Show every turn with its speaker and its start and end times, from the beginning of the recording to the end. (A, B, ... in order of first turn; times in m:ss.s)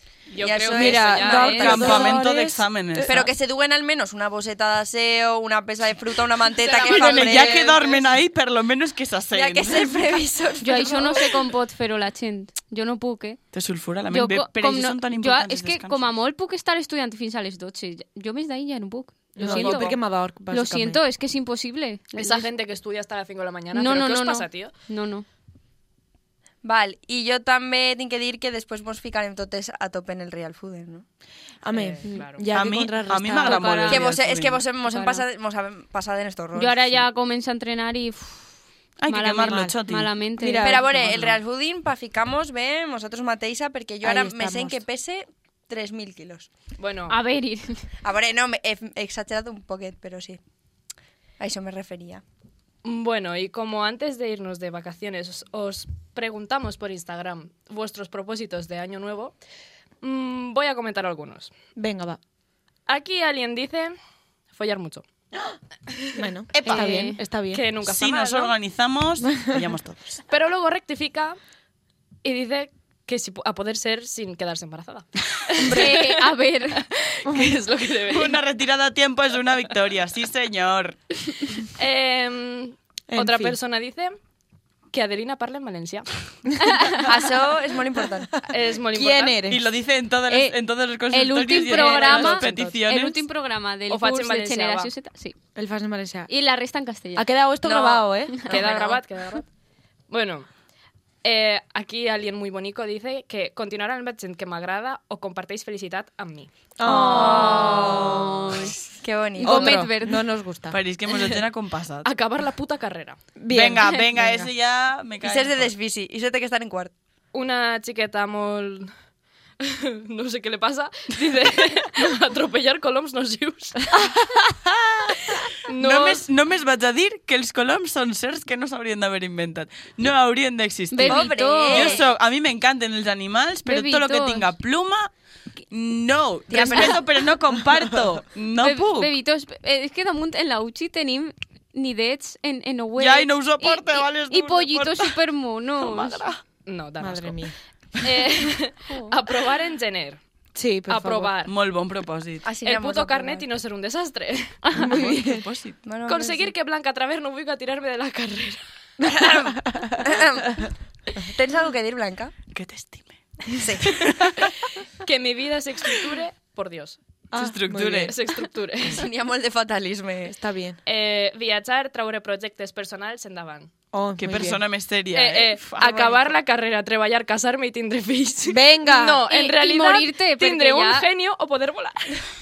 0:00.3-0:02.0 A
0:00.4-0:02.2 B
0:00.6-0:03.2 C
0:01.4-0:03.3 D
0:03.0-0:07.7 B
0:06.6-0:08.2 A
0:06.8-0:10.0 D
0:09.3-0:11.4 B
0:10.6-0:13.4 E
0:13.5-0:16.1 D
0:14.1-0:20.0 E
0:19.4-0:19.9 A
0:19.4-0:21.0 C
0:20.5-0:22.5 E
0:22.2-0:24.7 A
0:23.7-0:25.2 E
0:26.6-0:31.0 B
0:31.6-0:34.0 C
0:31.7-0:32.5 A
0:32.5-0:34.6 D
0:33.4-0:34.1 E
0:33.9-0:36.9 B
0:34.8-0:35.2 E
0:36.6-0:38.5 E
0:39.0-0:40.2 D
0:39.1-0:40.8 E
0:40.4-0:41.4 C
0:40.6-0:46.5 B
0:44.0-0:44.8 C
0:46.8-0:47.2 A
0:47.1-0:47.8 E
0:48.0-0:50.4 B
0:51.4-0:52.2 B
0:52.8-0:59.4 A
1:00.0-1:01.5 A
1:01.8-1:02.2 C
1:02.9-1:04.0 A
1:04.5-1:05.0 A
1:05.9-1:06.2 A
1:06.2-1:07.6 C
1:06.5-1:06.9 D
1:06.6-1:07.2 E
1:07.5-1:08.5 A
1:07.8-1:10.2 D
1:10.3-1:11.4 A
1:12.2-1:18.4 A
1:15.6-1:16.1 C
1:15.6-1:16.8 E
1:17.3-1:17.6 C
1:18.1-1:21.0 D
1:21.6-1:24.2 A
1:23.1-1:23.6 C
1:24.9-1:26.1 A
1:26.6-1:27.0 E
1:27.0-1:28.4 B
1:28.4-1:29.6 C
1:28.5-1:29.4 A
1:29.4-1:33.2 D
1:30.3-1:30.6 E
1:31.1-1:35.4 E
1:31.5-1:32.8 A
1:33.9-1:34.9 A
1:35.6-1:36.3 C
1:36.3-1:37.3 E
1:37.2-1:38.4 C
1:37.6-1:39.5 A
1:38.5-1:39.0 B
1:40.1-1:40.5 A
1:41.2-1:46.5 A
1:46.8-1:48.5 C
1:46.8-1:48.7 E
1:46.9-1:49.9 B
1:49.4-1:50.2 E
1:49.4-1:50.8 C
1:50.7-1:52.1 D
1:51.1-1:51.4 A
1:52.0-1:53.2 A
1:53.4-1:54.5 C
1:53.5-1:55.7 D
1:55.2-1:56.9 B
1:57.3-1:58.9 A
1:59.6-2:04.0 A
2:04.3-2:05.2 D
2:05.5-2:06.3 A
2:05.7-2:15.1 D
2:10.9-2:12.0 E
2:11.0-2:12.1 B
2:13.6-2:14.5 E
2:15.7-2:19.1 D
2:16.5-2:17.3 B
2:18.6-2:26.2 E
2:23.0-2:25.2 D
2:25.8-2:26.4 D
2:26.7-2:30.2 A
2:27.0-2:27.6 C
2:28.9-2:29.2 E
2:30.6-2:31.4 C
2:30.9-2:31.5 A
2:31.5-2:32.5 D
2:32.4-2:33.5 B
2:32.6-2:34.6 A
2:34.7-2:35.8 D
2:34.8-2:35.5 C
2:35.8-2:36.5 B
2:36.1-2:38.6 A
2:39.0-2:40.1 C
2:39.1-2:42.4 B
2:42.5-2:44.5 D
2:43.6-2:44.1 B
2:45.0-2:47.0 A
2:47.3-2:48.2 C
2:47.4-2:48.2 D
2:47.9-2:49.1 A
2:48.9-2:50.4 B
2:50.3-2:50.8 C
2:50.8-2:53.7 A
2:53.9-2:54.6 C
2:54.2-2:56.3 D
2:55.1-3:02.3 A
2:58.5-2:59.2 C
2:59.3-3:01.1 E